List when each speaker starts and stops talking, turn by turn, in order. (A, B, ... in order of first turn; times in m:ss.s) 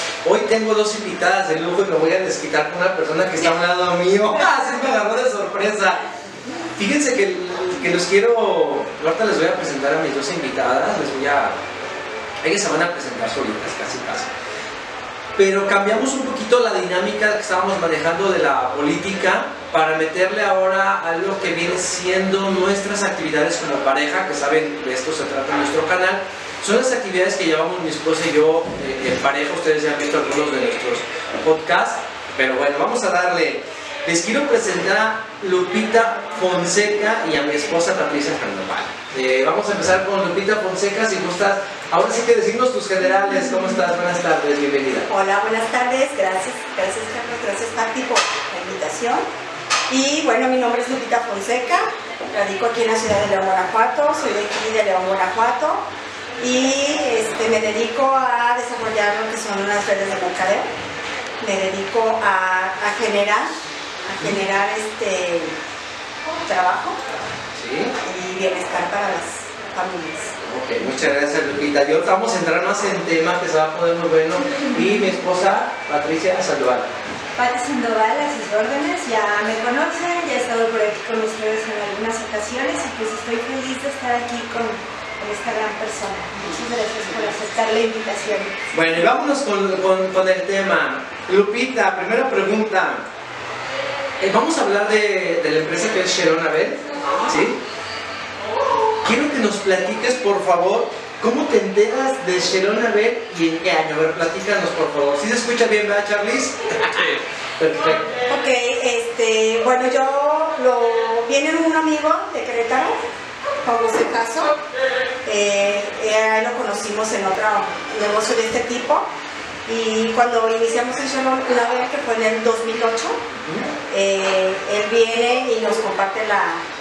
0:00.2-0:06.0 A
0:06.8-0:11.6 A
0:12.4-0:14.3 A
0:15.4-0:45.1 A
0:45.1-0:49.2 B
0:49.9-1:00.7 B
1:01.4-1:05.6 B
1:06.4-1:07.0 B
1:07.5-1:07.9 A
1:08.0-1:10.4 B
1:10.4-1:16.9 A
1:17.4-1:28.6 C
1:28.7-1:33.1 A
1:34.2-1:37.6 A
1:39.0-1:48.1 A
1:48.3-1:53.0 B
1:53.6-1:54.6 B
1:55.2-1:59.1 B
1:59.6-2:03.2 B
2:03.3-2:03.7 A
2:03.8-2:06.6 B